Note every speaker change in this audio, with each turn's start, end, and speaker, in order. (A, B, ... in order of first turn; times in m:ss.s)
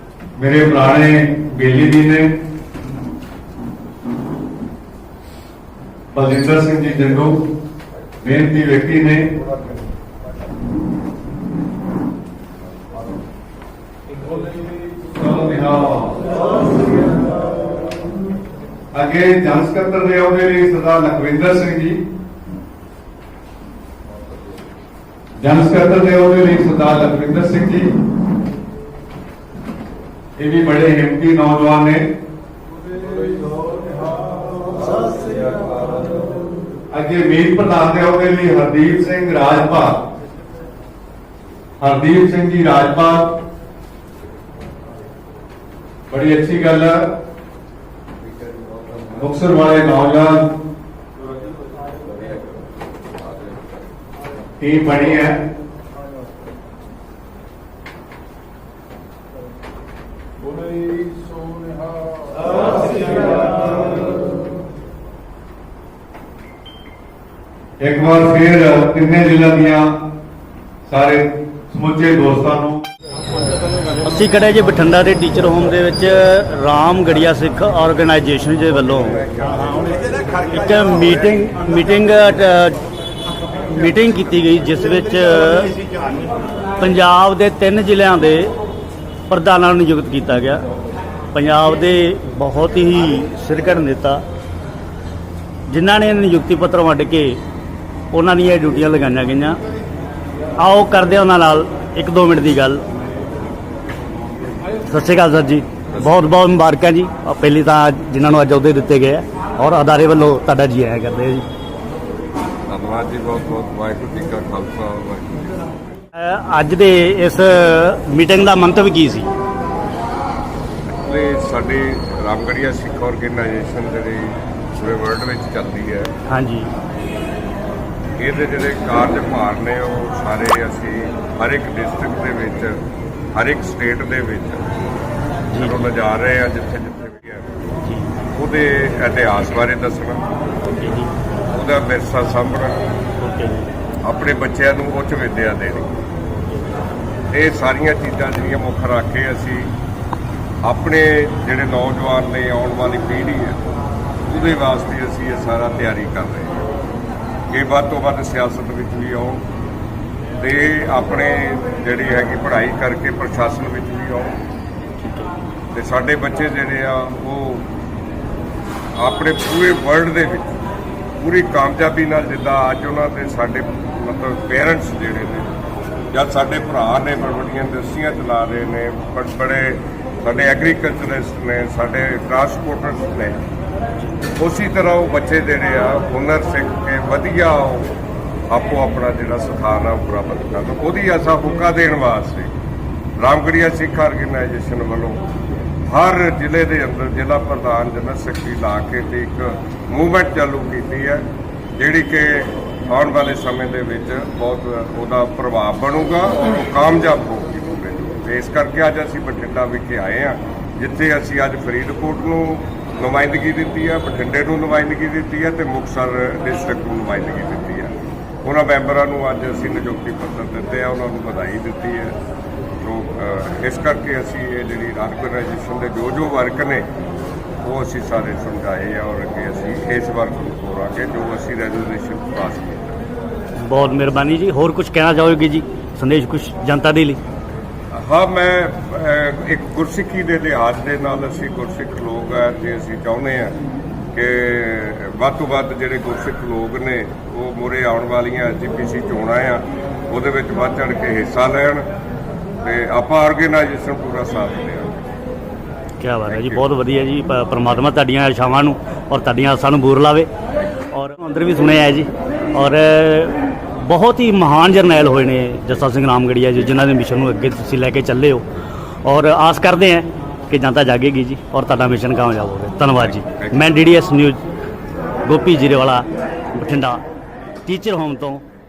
0:00.4-0:02.4 A
0:06.1-0:07.4 A
0:08.2-0:09.4 A
0:14.5-0:16.4 A
0:18.9-0:22.0 A
0:25.4-0:27.9 A
0:30.4-0:32.1 A
0:34.8-0:35.4 B
0:36.9-0:40.0 A
0:41.8-0:43.4 A
0:46.1-0:47.1 A
0:49.2-0:50.5 A
0:54.6-0:55.4 A
1:07.8-1:10.0 A
1:10.9-1:12.8 A
1:14.0-1:19.8 C
1:20.4-1:22.8 C
1:23.7-1:25.8 C
1:26.8-1:28.5 C
1:29.3-1:30.6 C
1:31.3-1:34.2 C
1:35.7-1:37.4 C
1:38.1-1:39.6 C
1:40.6-1:42.8 C
1:44.8-1:51.5 C
1:45.9-1:46.3 B
1:52.7-1:55.8 B
1:56.1-1:59.3 C
2:00.9-2:06.1 B
2:06.3-2:06.7 C
2:08.2-2:12.8 B
2:13.3-2:14.7 B
2:15.5-2:15.8 C
2:15.6-2:17.5 B
2:17.8-2:18.1 C
2:18.4-2:20.2 B
2:20.7-2:21.1 C
2:21.5-2:22.9 B
2:23.2-2:23.7 C
2:24.0-2:26.0 B
2:27.3-2:29.7 B
2:30.6-2:33.6 B
2:34.2-2:36.7 B
2:37.5-2:39.4 B
2:40.4-2:44.4 B
2:45.0-2:45.3 C
2:45.7-2:47.7 B
2:49.0-2:50.6 B
2:51.2-2:55.5 B
2:56.1-3:03.4 B
3:04.4-3:08.0 B
3:08.5-3:12.5 B
3:13.2-3:15.2 B
3:15.9-3:42.2 B
3:42.8-3:46.9 B
3:47.6-3:53.0 B
3:53.6-3:57.2 C
3:57.9-4:03.6 B
4:04.1-4:11.9 B
4:12.6-4:15.0 B
4:16.0-4:20.3 C
4:16.3-4:16.6 B
4:20.9-4:28.5 C
4:29.0-4:34.4 C
4:33.0-4:33.6 B
4:35.2-4:37.0 C
4:37.7-4:38.4 C